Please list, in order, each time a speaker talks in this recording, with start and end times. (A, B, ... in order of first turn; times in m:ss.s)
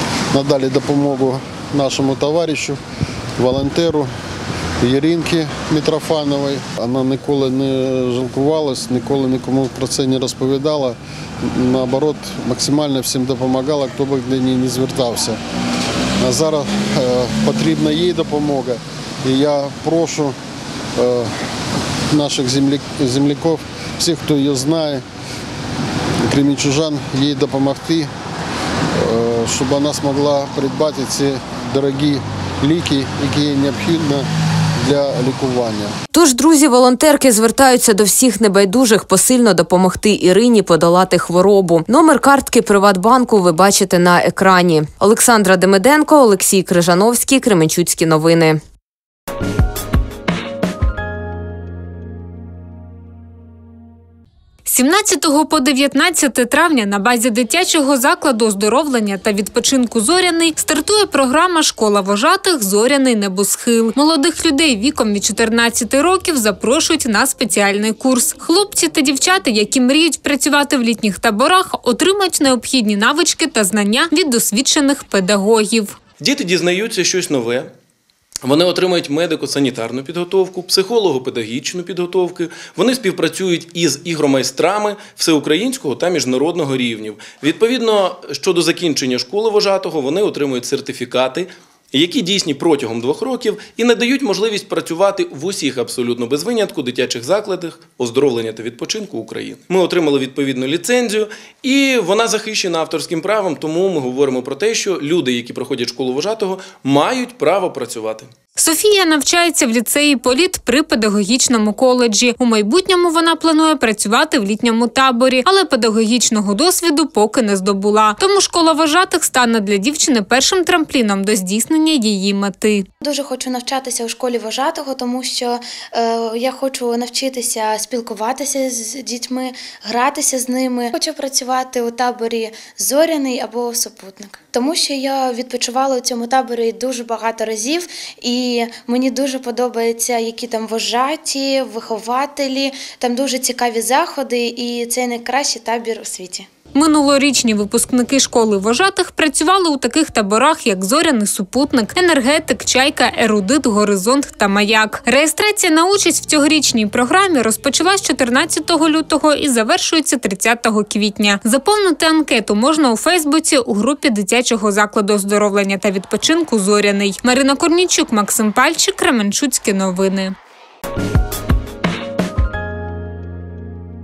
0:00.3-0:02.8 A
0:03.4-0:04.1 A
0:04.8-0:15.4 A
0:16.2-0:20.4 A
0:21.0-0:21.3 A
0:22.1-0:25.0 A
0:26.2-0:28.1 A
0:28.9-0:34.3 A
0:34.8-0:35.9 A
0:36.1-0:48.6 B
0:54.6-1:16.0 C
1:16.2-1:17.7 D
1:18.4-1:48.3 D
1:48.6-2:02.8 C
2:03.0-2:26.5 E
2:26.7-2:50.3 C